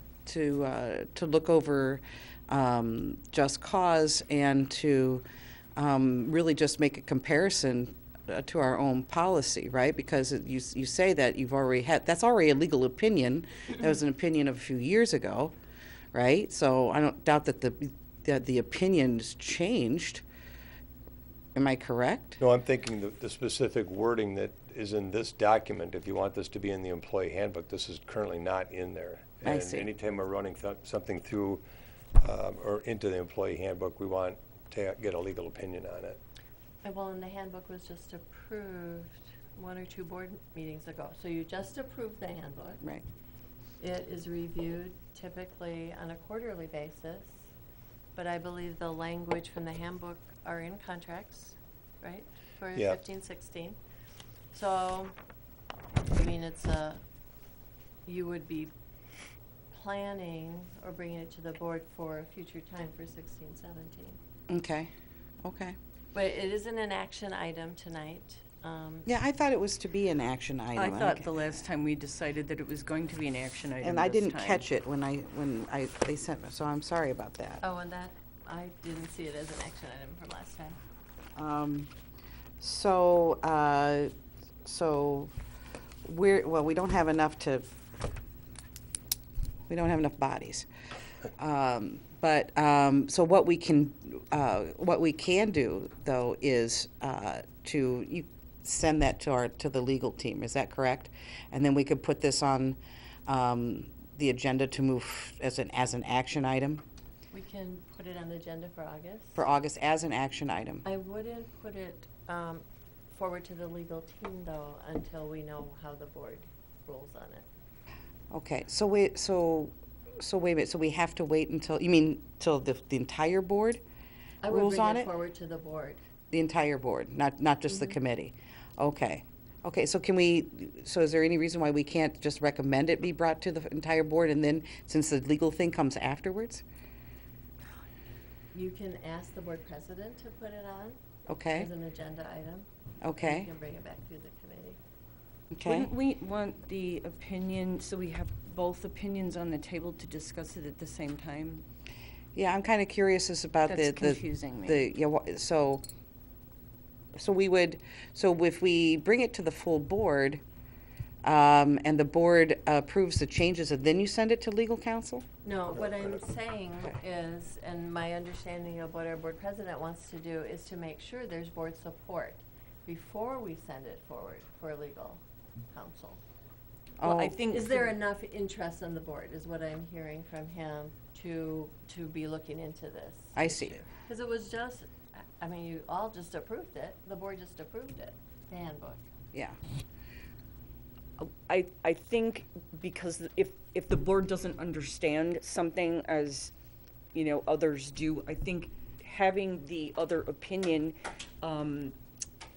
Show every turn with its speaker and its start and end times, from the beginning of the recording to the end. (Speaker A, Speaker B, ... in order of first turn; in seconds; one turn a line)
Speaker A: 0.2-5.2
Speaker A: 5.8-15.5
Speaker A: 16.1-20.2
Speaker A: 21.5-22.4
Speaker B: 22.4-31.6
Speaker A: 29.4-29.9
Speaker B: 32.2-36.2
Speaker C: 36.8-42.8
Speaker C: 43.8-47.4
Speaker C: 48.1-53.8
Speaker C: 54.5-55.1
Speaker C: 56.1-57.0
Speaker C: 58.1-58.7
Speaker C: 59.7-64.2
Speaker A: 64.5-64.9
Speaker A: 65.4-65.8
Speaker C: 66.1-69.1
Speaker A: 69.0-71.6
Speaker D: 70.8-74.6
Speaker A: 73.8-77.6
Speaker C: 77.6-80.8
Speaker A: 81.3-81.9
Speaker A: 82.6-84.1
Speaker A: 84.6-85.3
Speaker A: 86.0-87.7
Speaker A: 89.7-90.7
Speaker A: 91.4-106.8
Speaker C: 107.3-109.3
Speaker A: 109.3-110.8
Speaker C: 110.9-112.6
Speaker C: 113.2-117.4
Speaker A: 118.3-123.8
Speaker C: 124.4-126.0
Speaker A: 124.5-125.1
Speaker A: 126.3-136.6
Speaker C: 138.5-141.0
Speaker A: 141.3-141.7
Speaker C: 141.6-142.6
Speaker A: 143.0-143.5
Speaker C: 143.2-144.8
Speaker A: 145.5-145.9
Speaker D: 145.6-151.6
Speaker A: 152.3-155.8
Speaker D: 153.7-154.9
Speaker A: 157.1-160.4
Speaker A: 161.2-165.2
Speaker C: 165.4-175.2
Speaker C: 175.7-176.2
Speaker A: 177.0-177.4
Speaker D: 177.0-177.9
Speaker C: 177.5-184.8
Speaker A: 183.3-183.8
Speaker C: 185.4-189.0
Speaker D: 191.2-196.5
Speaker D: 197.1-201.9